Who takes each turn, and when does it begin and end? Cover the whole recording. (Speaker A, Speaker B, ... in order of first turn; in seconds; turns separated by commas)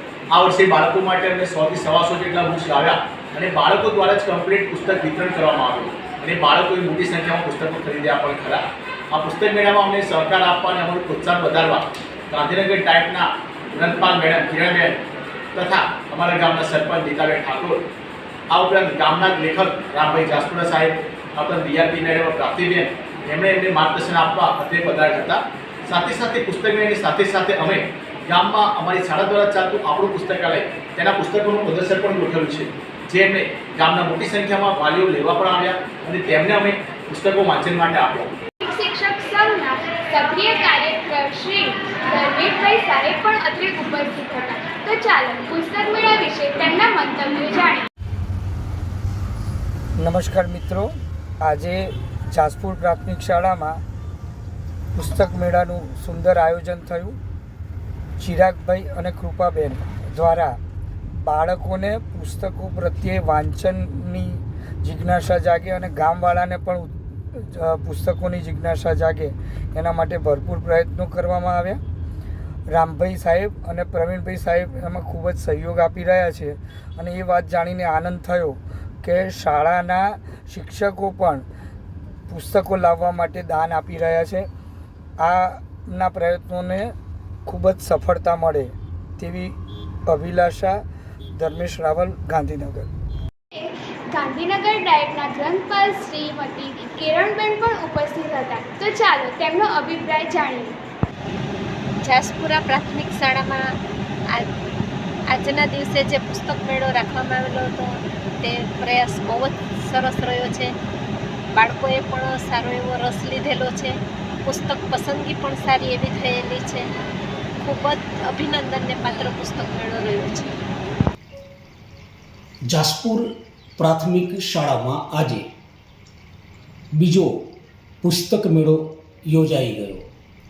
Speaker A: 0.3-15.0, Speaker A: 15.6-17.8, Speaker A: 18.5-38.4, Speaker B: 38.6-47.9, Speaker C: 50.0-50.9, Speaker C: 51.4-53.8, Speaker C: 55.0-57.2, Speaker C: 58.2-60.6, Speaker C: 61.2-71.8, Speaker C: 72.7-81.5, Speaker C: 82.3-84.5, Speaker C: 85.2-86.9, Speaker C: 87.5-89.5, Speaker C: 90.1-90.8, Speaker C: 91.4-92.9, Speaker B: 93.5-100.8, Speaker D: 102.0-103.7, Speaker D: 105.3-110.7, Speaker D: 111.5-116.9, Speaker D: 117.6-120.5, Speaker E: 122.7-123.3, Speaker E: 123.8-125.5, Speaker E: 127.0-127.3, Speaker E: 128.0-130.1